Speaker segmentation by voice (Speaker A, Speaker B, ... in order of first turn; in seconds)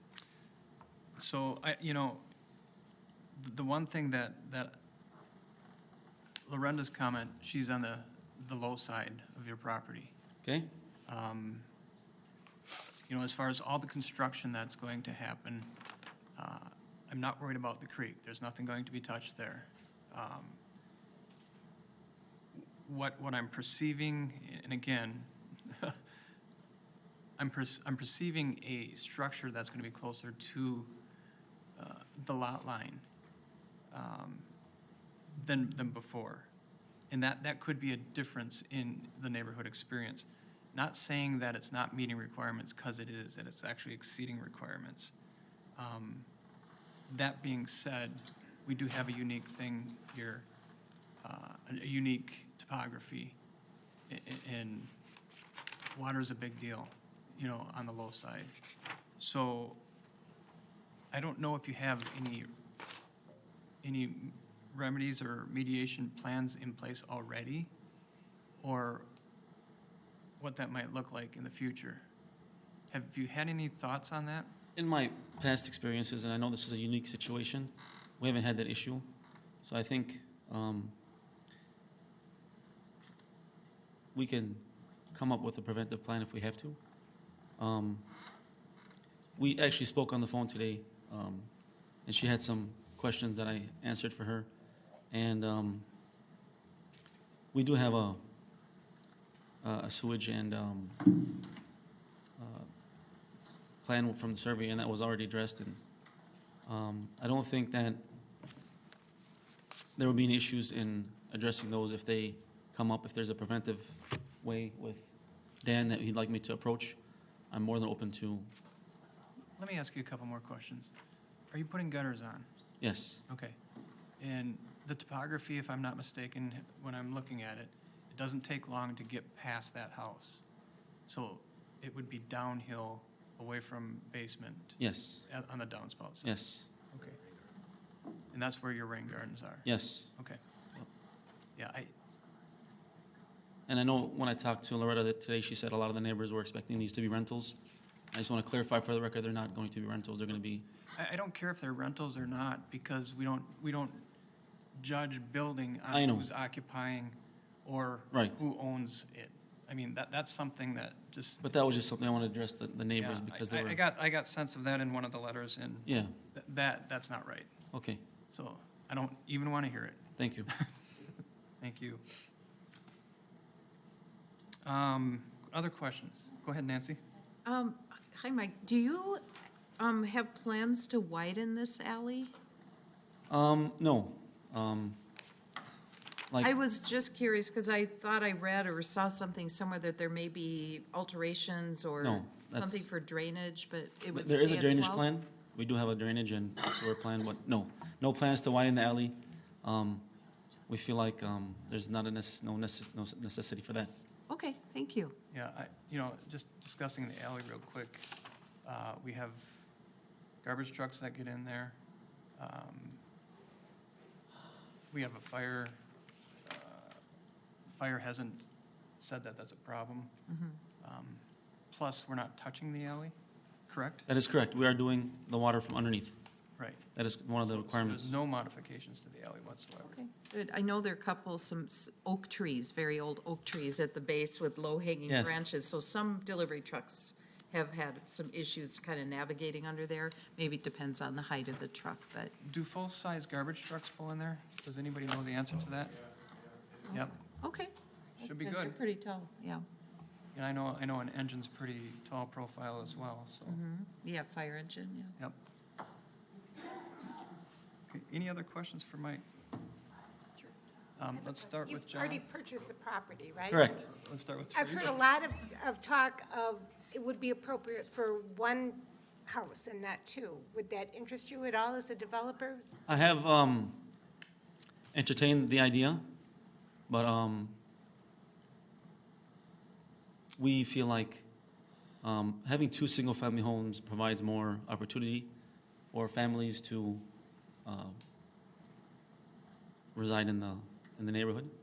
Speaker A: 1.2-2.2, 3.4-4.8, 6.5-10.2, 11.1-11.7, 13.1-15.8, 16.4-20.6, 22.5-26.0, 27.4-30.9, 31.8-33.0, 33.9-34.5, 35.4-36.5, 37.1-45.1, 45.8-46.3, 47.1-50.5, 51.2-53.4, 54.1-54.9, 55.9-58.5, 59.2-59.8, 61.1-62.5, 63.8-67.7, 68.6-69.1, 70.4-72.1, 72.9-74.5, 119.6-120.9, 121.5-122.5, 123.3-123.6, 124.2-130.4, 131.1-136.4, 136.9-137.2, 138.3-140.4, 141.6-141.9, 151.0-154.1, 154.8-161.4, 163.0-167.5, 168.3-170.7, 171.6-172.0, 174.7-177.0, 205.3-208.1, 208.6-209.6, 210.4-211.8, 212.4-213.0, 214.9-215.8, 216.4-217.0, 217.7-220.1, 220.8-223.2, 223.7-224.1, 226.6-226.9, 227.4-229.9, 242.4-246.1, 246.9-247.2, 248.2-248.8, 250.3-253.6, 257.9-259.2, 261.0-262.3, 263.9-265.0
Speaker B: 10.4-10.7, 74.8-79.1, 79.6-81.0, 84.1-86.8, 87.6-88.1, 89.4-91.5, 92.1-94.5, 95.1-95.9, 97.5-98.2, 99.6-101.4, 102.4-102.7, 103.8-105.8, 106.7-108.1, 110.0-115.1, 115.6-117.0, 117.5-118.5, 122.8-123.2, 134.8-135.2, 136.2-136.7, 139.7-140.1, 143.7-147.6, 148.1-150.7, 155.9-156.3, 158.1-158.4, 161.4-163.8, 165.9-166.2, 167.7-168.0, 170.2-170.5, 183.3-185.0, 192.0-192.8, 194.1-200.1, 200.7-203.9, 224.1-226.2, 226.9-228.1, 235.1-235.3, 263.5-263.9, 272.9-273.9, 274.9-276.1, 276.9-277.6, 280.4-281.3, 282.0-285.3, 285.9-287.1, 287.6-288.0, 289.9-291.5
Speaker C: 177.4-179.2, 179.8-182.3, 186.4-195.1, 204.3-205.2, 220.3-220.6, 229.8-242.3, 246.9-249.7, 253.4-255.2
Speaker D: 261.1-263.7, 264.5-272.7